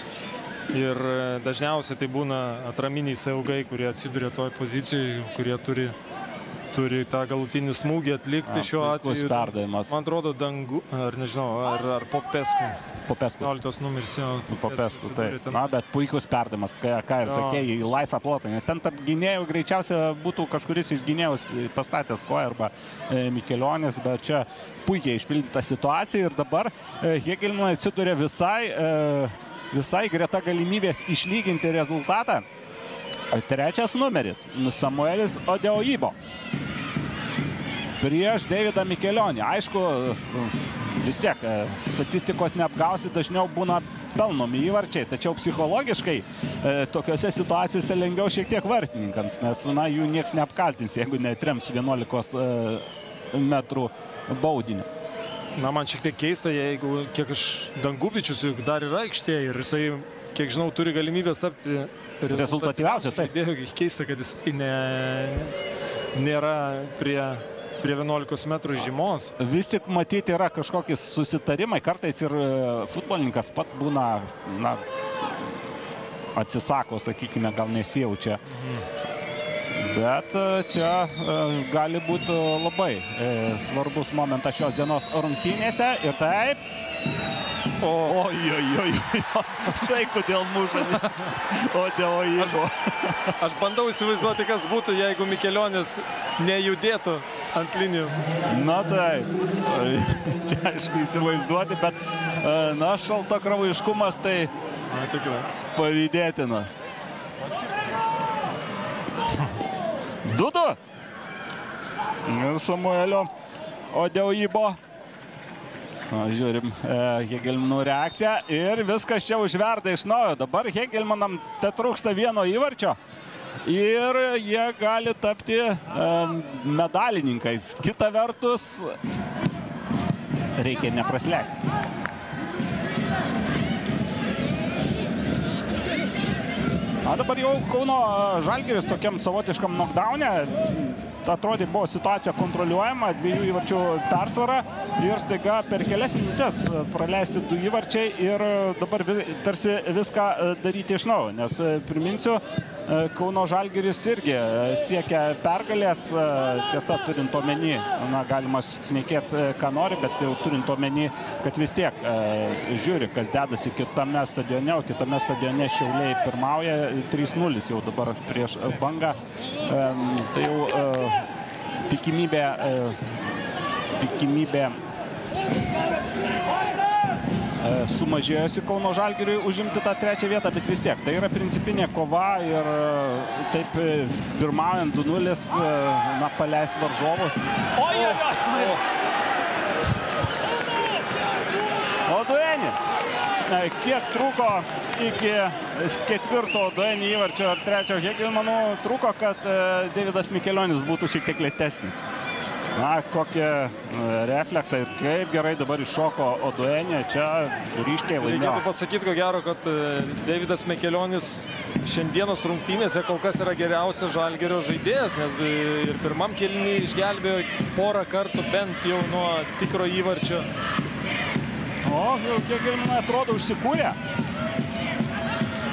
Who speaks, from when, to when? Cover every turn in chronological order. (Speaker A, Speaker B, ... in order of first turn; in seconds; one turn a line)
Speaker A: 0.7-6.0
Speaker A: 6.7-12.8
Speaker B: 8.4-9.9
Speaker B: 13.1-13.5
Speaker A: 13.4-15.6
Speaker B: 14.5-32.5
Speaker A: 17.2-17.6
Speaker B: 33.3-36.1
Speaker B: 38.0-54.9
Speaker A: 55.5-65.5
Speaker B: 62.3-63.3
Speaker A: 66.1-69.3
Speaker B: 69.4-74.8
Speaker B: 76.3-78.4
Speaker A: 78.5-78.8
Speaker B: 79.7-86.6
Speaker A: 87.8-88.2
Speaker B: 88.0-93.3
Speaker A: 91.0-91.2
Speaker A: 93.4-98.2
Speaker B: 98.5-104.5
Speaker A: 104.9-105.5
Speaker B: 105.7-106.8
Speaker B: 110.2-110.8
Speaker B: 112.2-113.3
Speaker B: 113.9-114.8
Speaker B: 116.1-123.0
Speaker B: 123.6-128.9
Speaker B: 130.6-131.7
Speaker B: 137.0-171.2
Speaker B: 171.8-173.4
Speaker B: 173.9-174.8
Speaker B: 177.6-188.8
Speaker A: 187.9-188.8
Speaker B: 192.1-192.8
Speaker B: 193.4-202.0
Speaker B: 202.7-208.6
Speaker A: 208.2-220.4
Speaker B: 221.8-224.0